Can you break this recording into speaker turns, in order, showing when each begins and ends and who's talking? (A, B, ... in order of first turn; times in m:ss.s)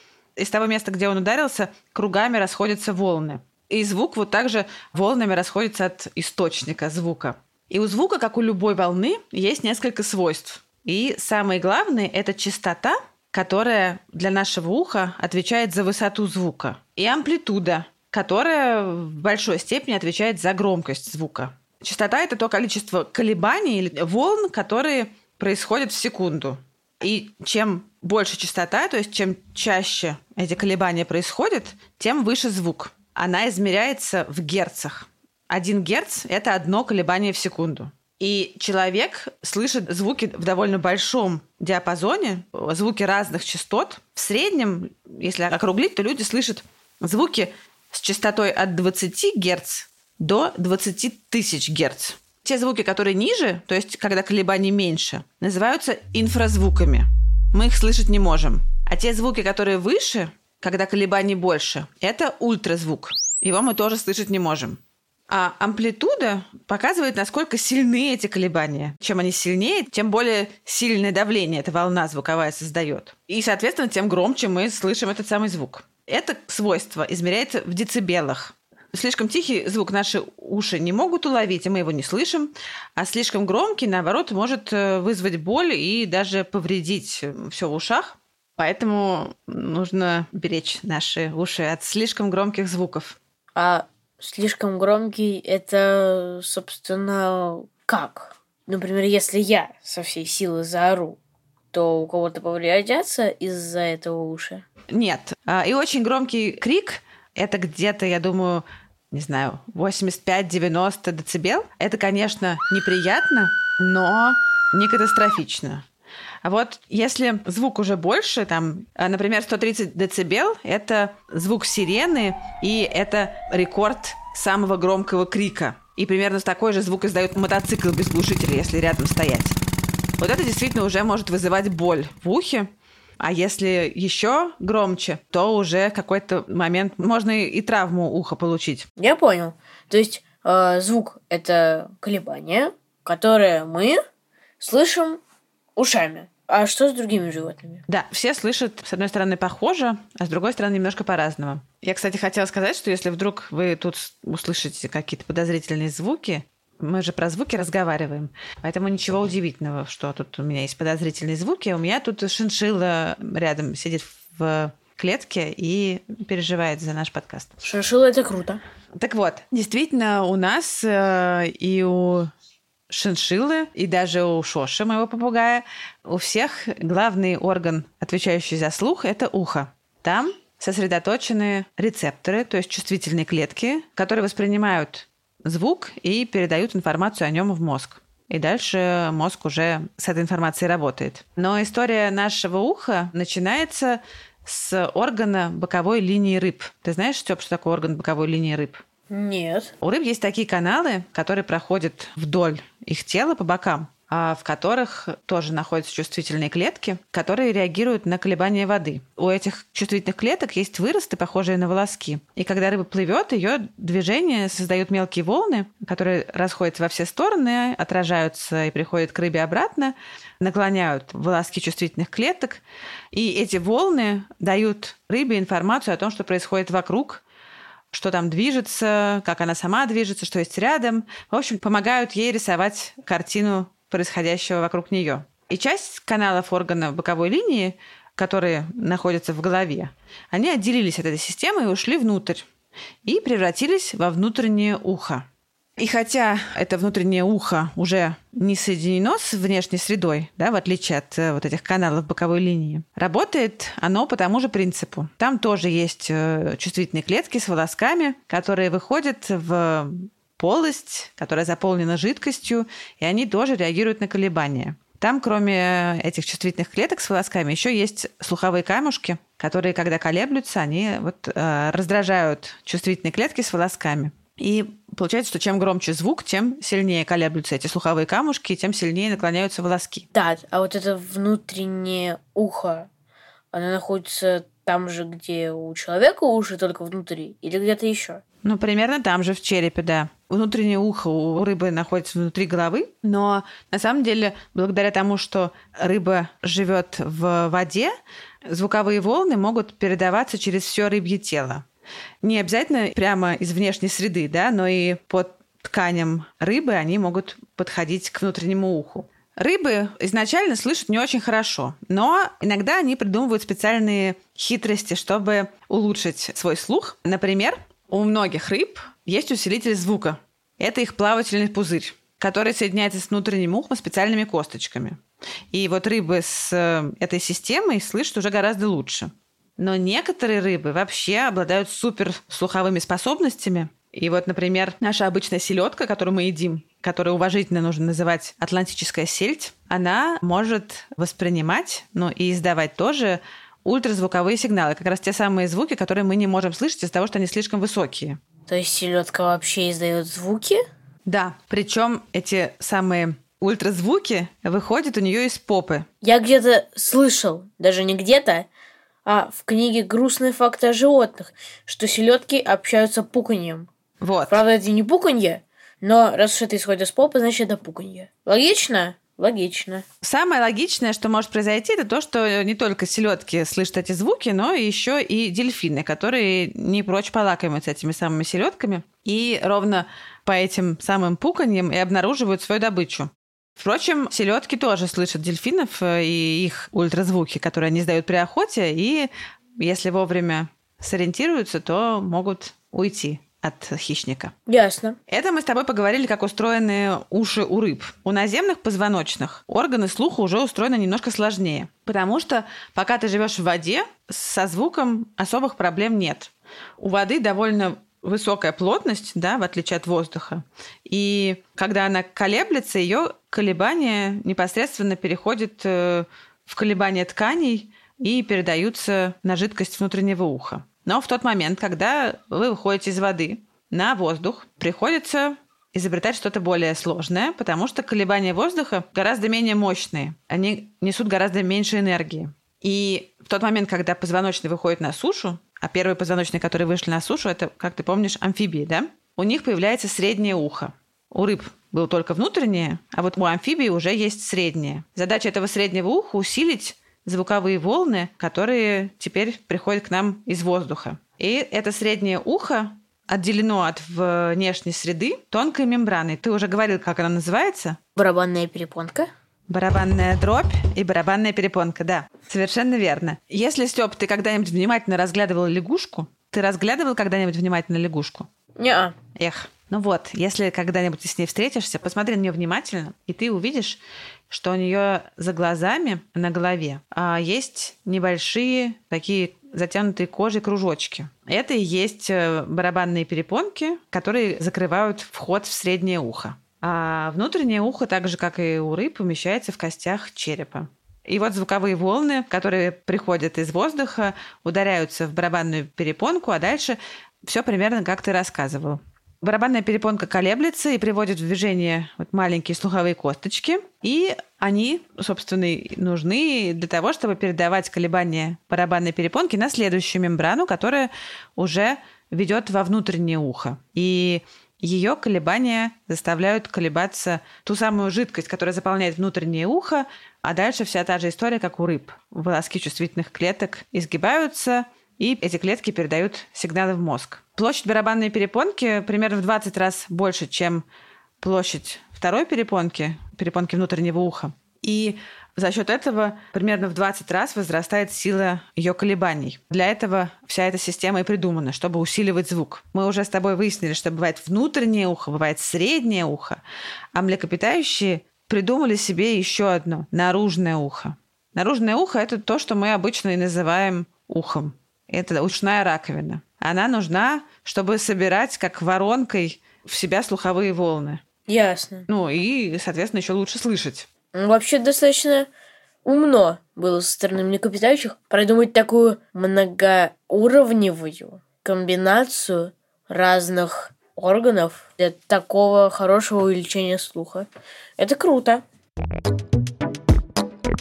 0:00.4-1:33.2 A
1:33.6-1:41.2 B
1:41.7-1:44.6 B
1:44.9-1:55.8 A
1:56.4-2:09.6 A
2:10.2-2:18.9 A
2:19.0-2:24.0 B
2:24.6-2:25.2 B
2:25.8-2:27.8 B
2:27.9-2:47.6 A
2:47.6-2:48.6 B
2:49.0-2:52.3 A
2:52.9-3:18.8 A
3:19.1-3:19.7 B
3:19.8-3:42.6 A
3:43.1-3:47.2 A
3:47.9-4:02.4 A
4:03.0-4:05.2 A
4:05.8-4:40.1 A
4:40.1-4:42.9 B
4:43.5-4:48.2 B
4:48.4-4:57.9 A
4:58.5-5:01.6 A
5:02.2-5:25.0 A
5:25.5-5:48.2 A
5:48.5-5:50.6 B
5:51.0-5:55.9 A
5:56.0-5:58.5 B
5:59.0-6:03.7 B
6:04.0-6:04.4 A
6:04.3-6:09.8 B
6:10.0-6:34.3 A
6:34.5-6:35.0 B
6:35.1-7:37.8 A
7:38.0-7:39.1 B
7:39.5-7:48.3 A
7:48.6-7:49.0 B
7:49.1-8:50.6 A
8:51.2-9:06.4 A
9:06.9-9:21.0 A
9:21.3-9:21.9 B
9:21.9-9:23.9 A
9:24.1-9:25.3 B
9:25.8-9:37.3 B
9:37.8-9:38.4 B